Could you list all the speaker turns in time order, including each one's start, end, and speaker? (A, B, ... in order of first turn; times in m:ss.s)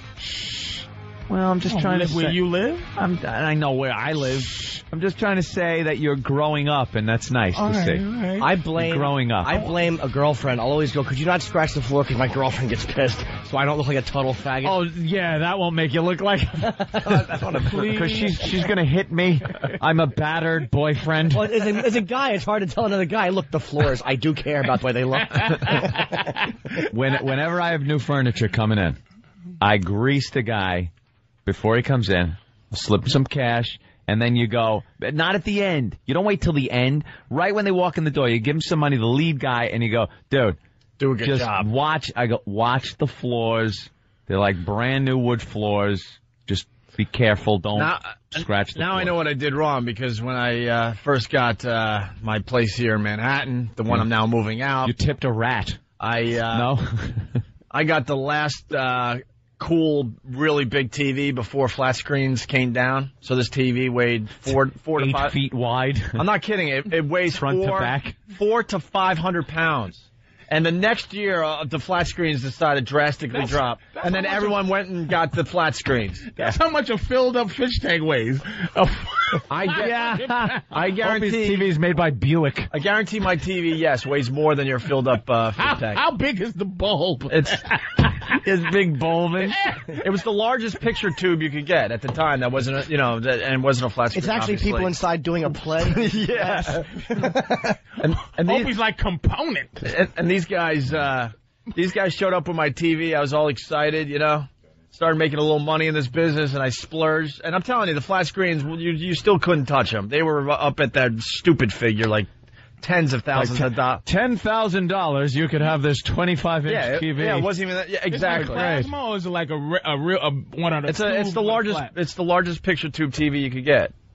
0:00.3-0:00.8 A
0:01.3-0:02.4 B
0:01.6-0:02.9 A
0:03.0-0:08.0 B
0:07.6-0:08.5 A
0:08.4-0:14.8 C
0:08.8-0:09.6 B
0:14.6-0:21.6 B
0:17.7-0:18.4 A
0:21.3-0:26.0 C
0:26.9-0:29.0 B
0:29.6-0:30.9 B
0:31.5-0:40.6 B
0:41.0-0:41.7 D
0:41.2-0:49.2 B
0:47.8-0:54.9 D
0:54.8-0:55.8 B
0:56.0-0:56.7 D
0:56.5-0:57.4 B
0:57.7-1:05.4 D
1:05.0-1:06.3 B
1:06.2-1:16.6 D
1:07.3-1:08.2 B
1:13.3-1:14.7 A
1:16.4-1:20.6 A
1:19.5-1:19.9 D
1:19.7-1:22.7 B
1:20.7-1:21.7 D
1:22.7-1:26.0 D
1:25.6-1:28.0 A
1:27.3-1:27.6 D
1:28.4-1:29.6 B
1:30.0-1:34.9 D
1:34.2-1:37.8 C
1:35.8-1:36.8 D
1:38.0-1:38.7 D
1:38.4-1:39.8 A
1:39.8-1:52.3 D
1:52.8-1:54.0 D
1:53.3-1:57.5 B
1:56.7-1:58.7 D
1:58.1-2:01.9 A
1:58.3-1:58.9 B
2:00.9-2:03.9 D